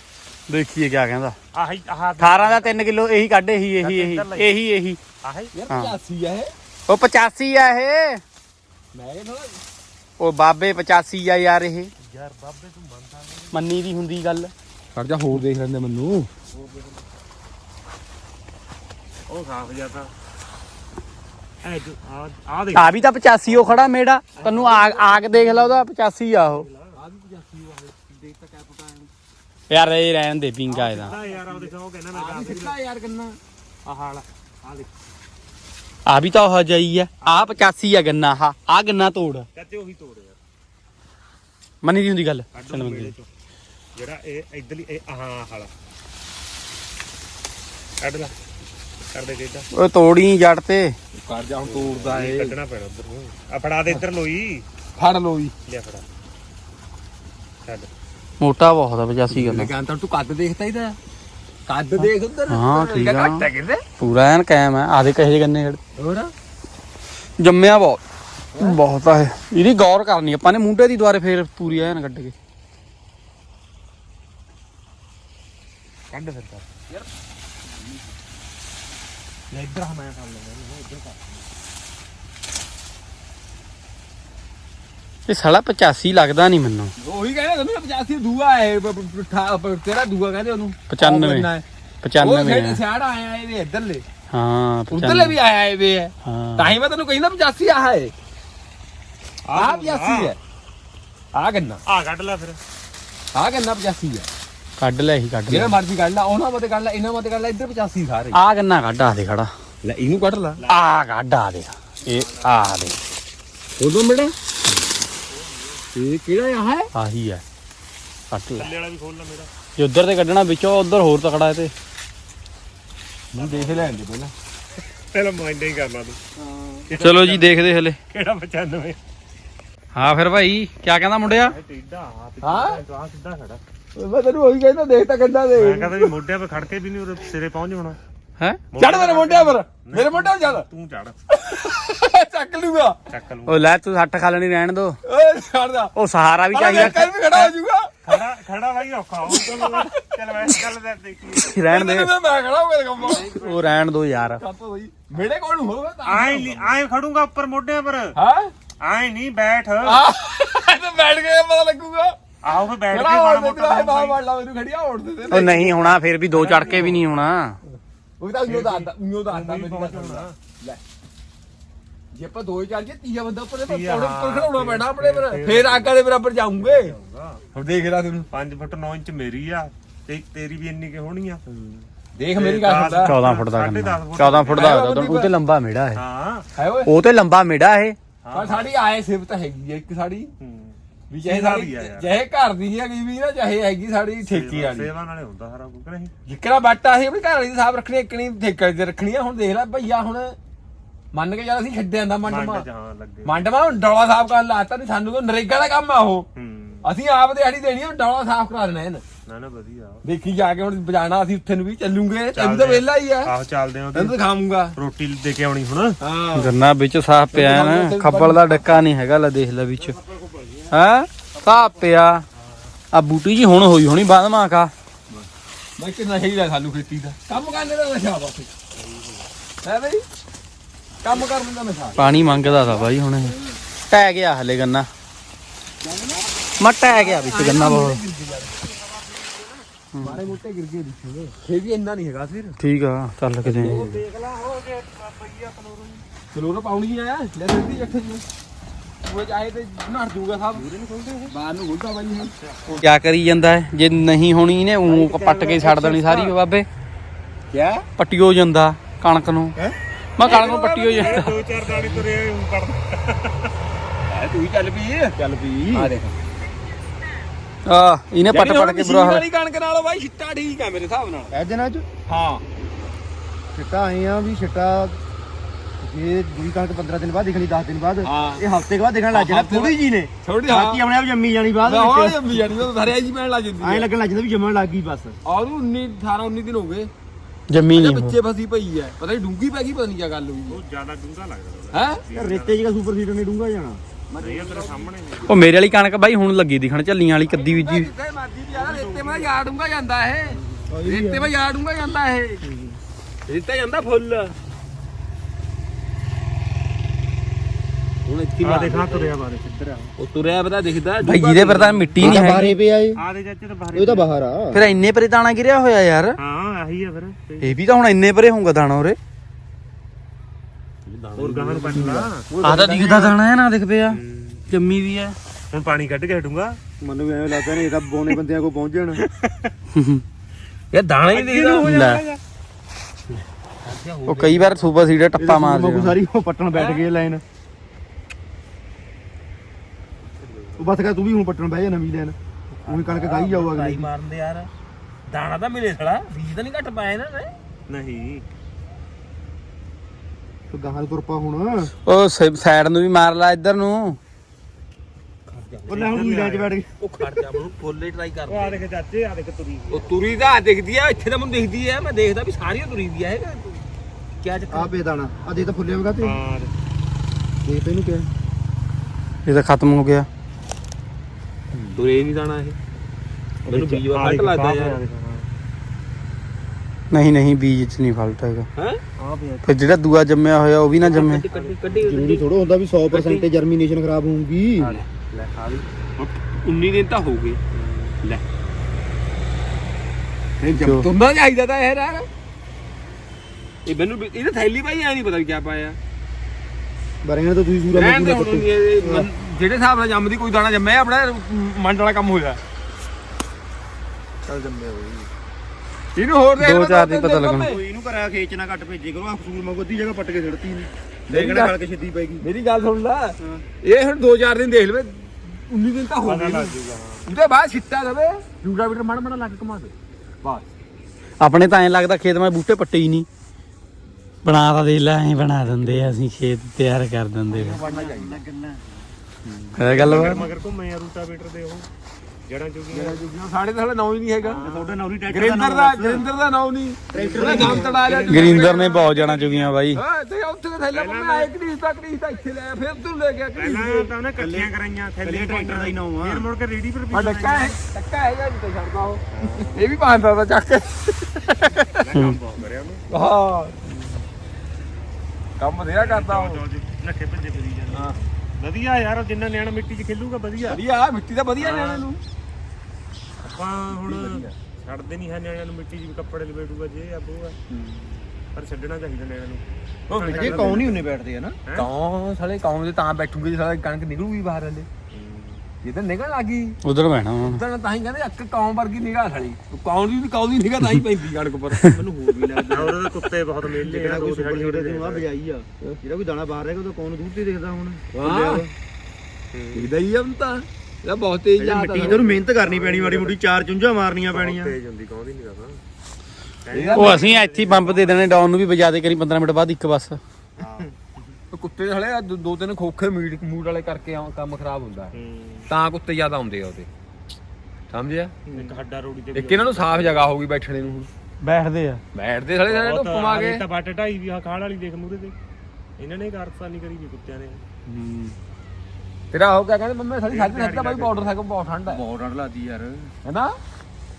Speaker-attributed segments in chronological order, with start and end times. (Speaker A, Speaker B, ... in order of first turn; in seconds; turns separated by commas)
Speaker A: 0.5-1.4, Speaker B: 1.5-2.7, Speaker A: 2.2-5.0, Speaker B: 3.8-4.5, Speaker B: 5.2-5.5, Speaker C: 5.5-6.5, Speaker A: 5.7-6.0, Speaker A: 6.9-8.2, Speaker C: 8.9-9.6, Speaker A: 10.2-11.9, Speaker B: 12.0-13.6, Speaker A: 13.5-14.5, Speaker C: 14.9-16.3, Speaker B: 16.5-16.9, Speaker B: 19.3-20.1, Speaker B: 21.6-23.9, Speaker A: 22.7-26.6, Speaker C: 24.4-25.8, Speaker B: 26.4-26.9, Speaker C: 26.9-29.1, Speaker A: 29.7-31.1, Speaker C: 30.7-33.4, Speaker B: 30.8-32.7, Speaker B: 33.8-34.9, Speaker A: 36.0-39.5, Speaker B: 37.2-37.6, Speaker B: 39.5-40.4, Speaker A: 41.8-43.1, Speaker B: 42.5-43.3, Speaker B: 43.9-45.7, Speaker B: 48.0-48.3, Speaker B: 49.1-49.6, Speaker A: 49.7-50.9, Speaker C: 51.1-52.5, Speaker B: 51.6-54.6, Speaker C: 55.0-55.5, Speaker B: 55.6-56.0, Speaker A: 58.4-59.7, Speaker C: 59.3-61.0, Speaker C: 61.7-63.8, Speaker A: 62.5-63.5, Speaker A: 64.0-65.8, Speaker C: 66.0-66.3, Speaker A: 67.4-68.0, Speaker A: 68.6-72.3, Speaker B: 76.1-76.6, Speaker B: 79.5-81.4, Speaker A: 85.3-86.9, Speaker C: 87.0-91.6, Speaker A: 90.9-91.5, Speaker A: 92.0-92.8, Speaker C: 92.2-94.0, Speaker A: 94.3-95.4, Speaker C: 94.9-98.1, Speaker A: 96.2-96.8, Speaker B: 99.5-100.3, Speaker C: 99.5-100.4, Speaker C: 101.3-101.8, Speaker B: 101.8-102.6, Speaker C: 103.3-104.3, Speaker A: 104.8-105.8, Speaker C: 105.5-108.4, Speaker A: 108.3-109.5, Speaker C: 109.8-110.6, Speaker A: 110.7-113.0, Speaker B: 112.0-112.9, Speaker C: 113.8-114.3, Speaker B: 115.3-115.8, Speaker C: 115.9-116.9, Speaker A: 116.9-117.4, Speaker A: 118.3-118.7, Speaker B: 118.5-119.5, Speaker A: 119.8-121.7, Speaker C: 123.3-124.3, Speaker B: 123.3-124.0, Speaker B: 125.1-126.2, Speaker C: 126.4-126.9, Speaker B: 126.9-129.0, Speaker A: 127.0-128.0, Speaker A: 129.9-131.6, Speaker B: 131.2-133.6, Speaker C: 132.4-132.8, Speaker C: 133.9-136.1, Speaker B: 135.6-138.0, Speaker B: 138.7-141.2, Speaker C: 138.8-140.6, Speaker C: 141.3-143.0, Speaker B: 143.1-143.6, Speaker A: 143.4-145.0, Speaker C: 145.0-145.9, Speaker A: 145.9-147.4, Speaker C: 146.5-148.1, Speaker B: 146.6-147.1, Speaker B: 148.0-151.5, Speaker C: 149.3-150.1, Speaker A: 151.3-152.1, Speaker C: 151.6-153.3, Speaker B: 153.0-153.8, Speaker A: 153.2-154.4, Speaker C: 154.4-156.7, Speaker B: 156.1-158.1, Speaker C: 158.1-158.5, Speaker B: 158.8-160.0, Speaker C: 159.8-162.2, Speaker B: 162.4-164.2, Speaker C: 162.9-165.9, Speaker A: 165.3-167.6, Speaker B: 166.3-167.1, Speaker C: 168.2-170.8, Speaker B: 168.4-170.3, Speaker C: 172.1-176.9, Speaker B: 173.7-175.9, Speaker B: 176.6-177.4, Speaker C: 177.5-178.3, Speaker B: 178.3-181.4, Speaker C: 181.5-183.2, Speaker B: 182.3-184.8, Speaker A: 183.0-186.0, Speaker C: 184.5-185.3, Speaker B: 185.9-186.4, Speaker C: 186.6-186.9, Speaker A: 186.8-188.0, Speaker B: 188.2-188.7, Speaker C: 188.3-190.3, Speaker B: 190.4-192.1, Speaker C: 191.1-194.9, Speaker B: 194.3-196.1, Speaker C: 196.2-200.4, Speaker C: 201.1-202.6, Speaker B: 202.2-203.5, Speaker C: 203.2-206.3, Speaker B: 206.3-206.8, Speaker C: 206.8-209.0, Speaker B: 209.3-210.0, Speaker C: 210.0-213.3, Speaker B: 212.3-214.2, Speaker C: 213.9-214.7, Speaker B: 214.8-216.0, Speaker C: 216.0-216.5, Speaker A: 216.3-220.0, Speaker C: 217.3-218.8, Speaker B: 219.8-220.7, Speaker A: 220.7-222.2, Speaker B: 222.4-222.7, Speaker A: 222.9-224.7, Speaker C: 225.1-228.5, Speaker B: 228.7-229.2, Speaker C: 229.6-230.0, Speaker C: 231.0-232.1, Speaker B: 232.0-232.7, Speaker A: 232.0-233.4, Speaker A: 233.9-234.9, Speaker C: 235.8-236.3, Speaker A: 236.6-238.0, Speaker C: 236.8-238.6, Speaker B: 238.5-239.6, Speaker A: 239.9-240.3, Speaker C: 240.0-242.6, Speaker A: 242.6-243.9, Speaker C: 243.4-244.0, Speaker B: 243.6-246.0, Speaker C: 246.3-248.2, Speaker C: 249.0-250.7, Speaker B: 250.5-251.3, Speaker C: 251.3-252.3, Speaker A: 252.7-256.7, Speaker C: 254.9-256.3, Speaker B: 254.9-255.6, Speaker C: 257.5-257.9, Speaker A: 258.0-259.6, Speaker A: 260.2-261.3, Speaker C: 260.2-262.0, Speaker B: 261.0-263.5, Speaker C: 264.1-265.1, Speaker D: 265.1-265.9, Speaker C: 265.7-266.1, Speaker A: 267.6-269.2, Speaker C: 268.3-271.3, Speaker D: 271.3-271.9, Speaker C: 272.1-272.4, Speaker D: 273.5-275.0, Speaker D: 275.8-282.7, Speaker C: 278.0-278.4, Speaker C: 279.1-280.8, Speaker C: 281.6-283.9, Speaker D: 283.6-285.2, Speaker C: 285.2-286.9, Speaker A: 287.5-288.2, Speaker C: 287.7-290.6, Speaker B: 290.5-292.6, Speaker C: 291.7-292.0, Speaker D: 292.1-293.8, Speaker C: 294.1-294.9, Speaker B: 294.2-295.4, Speaker A: 295.2-297.9, Speaker C: 297.3-302.4, Speaker B: 298.5-299.4, Speaker D: 300.7-301.3, Speaker D: 302.5-302.8, Speaker C: 303.3-304.3, Speaker C: 308.1-309.1, Speaker B: 308.4-309.9, Speaker C: 310.0-312.4, Speaker A: 311.0-312.6, Speaker D: 312.0-313.0, Speaker B: 313.0-314.1, Speaker D: 313.7-314.6, Speaker A: 314.5-316.2, Speaker B: 316.2-317.6, Speaker A: 317.4-319.0, Speaker C: 320.9-322.6, Speaker B: 321.2-322.2, Speaker D: 321.7-323.1, Speaker A: 322.4-325.2, Speaker B: 323.9-324.4, Speaker B: 325.5-326.6, Speaker D: 326.8-329.0, Speaker B: 329.1-329.5, Speaker A: 329.7-330.0, Speaker C: 330.7-331.7, Speaker B: 331.1-332.2, Speaker A: 331.6-332.0, Speaker C: 333.6-334.8, Speaker A: 334.1-336.0, Speaker D: 335.2-337.2, Speaker C: 336.5-336.9, Speaker D: 340.6-343.9, Speaker C: 342.5-344.5, Speaker C: 345.1-347.4, Speaker B: 347.7-348.2, Speaker D: 350.5-351.7, Speaker A: 351.8-354.0, Speaker C: 355.3-356.2, Speaker B: 355.7-356.5, Speaker D: 355.7-356.7, Speaker C: 356.8-358.6, Speaker B: 358.3-360.1, Speaker C: 359.7-363.6, Speaker C: 364.2-364.7, Speaker D: 364.5-366.2, Speaker B: 366.0-366.5, Speaker D: 367.4-368.1, Speaker A: 369.2-370.1, Speaker C: 371.6-372.6, Speaker C: 373.4-374.8, Speaker B: 373.5-375.3, Speaker A: 376.9-378.5, Speaker C: 378.6-378.8, Speaker B: 379.0-379.5, Speaker A: 379.4-381.2, Speaker C: 380.8-382.3, Speaker B: 380.8-381.9, Speaker D: 381.8-384.7, Speaker C: 382.9-383.2, Speaker B: 384.6-385.6, Speaker C: 384.6-384.9, Speaker C: 386.0-387.4, Speaker B: 387.5-388.0, Speaker C: 390.4-392.1, Speaker A: 390.5-390.9, Speaker C: 393.6-395.8, Speaker D: 397.0-399.1, Speaker C: 397.7-402.4, Speaker D: 404.2-405.1, Speaker C: 405.9-407.6, Speaker A: 406.4-407.6, Speaker D: 407.3-412.2, Speaker C: 411.1-411.6, Speaker C: 412.2-416.5, Speaker B: 416.0-417.2, Speaker C: 417.1-420.4, Speaker A: 421.2-423.1, Speaker A: 424.2-427.6, Speaker D: 427.3-428.9, Speaker C: 427.4-428.2, Speaker C: 429.2-430.2, Speaker A: 429.6-430.3, Speaker B: 429.7-431.7, Speaker B: 432.3-433.0, Speaker C: 432.7-434.4, Speaker B: 434.2-434.9, Speaker D: 434.4-436.1, Speaker C: 435.1-438.6, Speaker D: 436.9-437.9, Speaker B: 437.0-439.6, Speaker A: 438.1-439.8, Speaker C: 439.7-443.9, Speaker B: 440.7-441.3, Speaker B: 443.4-447.6, Speaker D: 444.2-444.5, Speaker D: 445.0-446.2, Speaker C: 446.9-451.8, Speaker B: 449.1-449.8, Speaker B: 451.6-452.8, Speaker C: 452.9-453.7, Speaker C: 455.4-456.4, Speaker B: 455.7-460.6, Speaker C: 457.7-457.9, Speaker C: 460.4-462.0, Speaker B: 461.4-461.9, Speaker B: 463.2-467.4, Speaker C: 463.8-464.3, Speaker C: 467.5-468.0, Speaker B: 468.3-471.7, Speaker C: 469.9-470.6, Speaker D: 470.1-471.4, Speaker C: 471.5-474.7, Speaker B: 474.9-475.4, Speaker C: 475.6-476.6, Speaker A: 476.6-477.4, Speaker C: 477.2-481.7, Speaker D: 481.6-488.5, Speaker B: 482.5-485.1, Speaker C: 487.9-488.4, Speaker B: 489.3-489.7, Speaker C: 489.5-492.1, Speaker D: 491.4-494.5, Speaker B: 491.7-493.2, Speaker B: 494.1-495.6, Speaker B: 496.4-498.2, Speaker C: 496.5-497.1, Speaker A: 496.7-500.0, Speaker B: 500.4-501.1, Speaker C: 501.3-504.9, Speaker B: 504.9-505.5, Speaker C: 505.5-506.7, Speaker C: 507.7-508.3, Speaker B: 508.3-510.1, Speaker C: 509.1-510.9, Speaker A: 511.2-511.8, Speaker C: 511.9-513.4, Speaker B: 512.5-515.1, Speaker B: 515.8-517.4, Speaker C: 519.1-521.8, Speaker B: 520.1-521.1, Speaker D: 521.7-522.9, Speaker C: 523.0-523.4